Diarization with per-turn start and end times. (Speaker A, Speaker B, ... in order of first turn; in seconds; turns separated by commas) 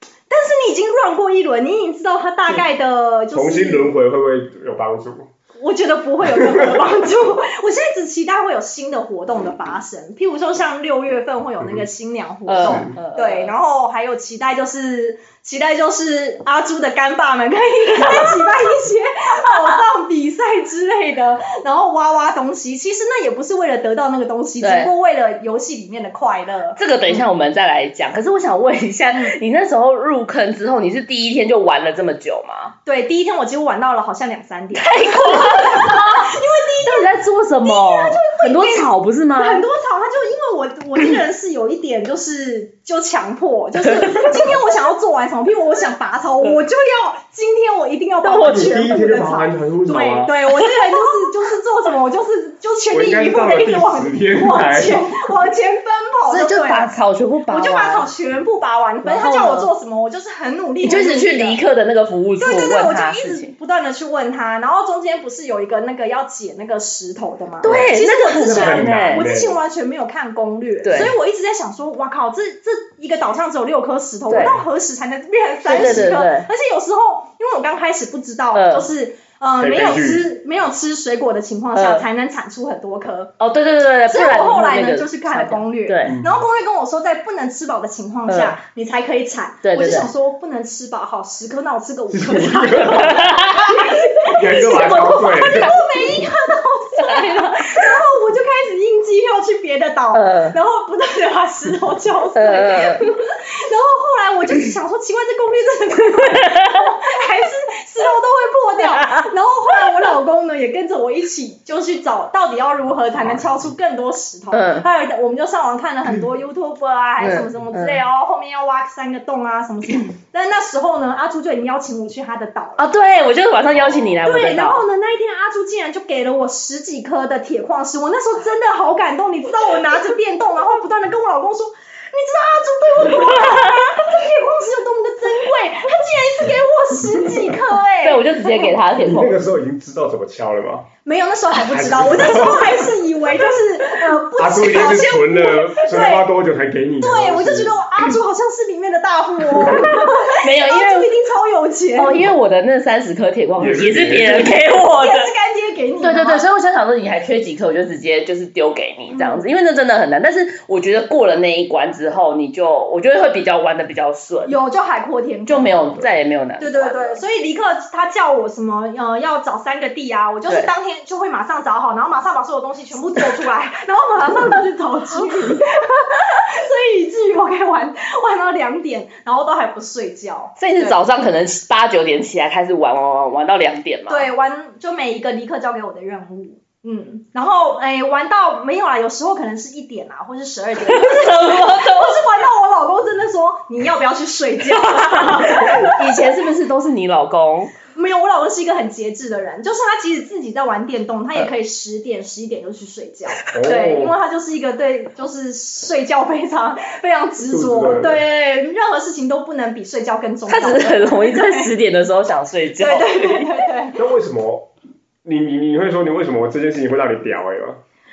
Speaker A: 0.3-3.9, Speaker B: 3.3-5.3, Speaker A: 5.6-27.1, Speaker B: 6.3-6.8, Speaker C: 12.5-13.5, Speaker B: 12.6-12.9, Speaker C: 18.0-18.5, Speaker C: 19.5-19.8, Speaker C: 24.6-24.9, Speaker C: 26.8-32.7, Speaker A: 29.1-29.4, Speaker A: 32.8-56.9, Speaker C: 34.7-39.6, Speaker C: 43.8-44.5, Speaker C: 48.2-48.9, Speaker B: 48.4-50.3, Speaker C: 50.6-51.3, Speaker B: 52.9-55.4, Speaker C: 56.3-58.1, Speaker A: 57.5-61.6, Speaker C: 59.0-59.7, Speaker C: 60.8-63.5, Speaker A: 62.4-83.3, Speaker C: 67.6-69.3, Speaker B: 67.6-69.6, Speaker C: 70.8-71.1, Speaker C: 74.3-74.6, Speaker C: 75.6-76.5, Speaker B: 75.7-76.2, Speaker C: 78.5-78.9, Speaker B: 79.6-80.3, Speaker C: 81.8-82.0, Speaker C: 83.4-86.2, Speaker A: 84.1-122.9, Speaker B: 86.0-86.4, Speaker C: 88.3-88.5, Speaker C: 89.6-90.1, Speaker B: 92.1-93.2, Speaker C: 93.0-95.2, Speaker B: 94.3-96.2, Speaker C: 100.1-100.6, Speaker C: 102.3-103.0, Speaker C: 106.4-106.8, Speaker C: 108.9-109.2, Speaker B: 113.2-113.5, Speaker C: 114.5-114.8, Speaker C: 117.2-118.0, Speaker C: 122.8-124.8, Speaker A: 124.2-138.8, Speaker C: 133.2-133.9, Speaker C: 138.0-139.4, Speaker B: 139.0-140.9, Speaker A: 141.0-146.2, Speaker B: 141.7-142.9, Speaker B: 144.3-148.1, Speaker A: 147.0-152.2, Speaker B: 149.5-149.9, Speaker C: 149.9-151.1, Speaker C: 151.9-155.3, Speaker B: 153.6-154.6, Speaker A: 154.9-156.4, Speaker C: 156.0-164.6, Speaker A: 159.1-159.4, Speaker A: 164.4-165.8, Speaker C: 165.4-167.2, Speaker A: 166.6-181.0, Speaker C: 180.6-184.3, Speaker A: 184.1-196.2, Speaker C: 190.9-192.2, Speaker C: 194.8-197.7, Speaker A: 197.9-211.7, Speaker B: 203.5-204.1, Speaker B: 207.4-208.2, Speaker C: 210.5-213.5, Speaker A: 212.8-214.0, Speaker B: 213.9-214.7, Speaker B: 215.2-217.8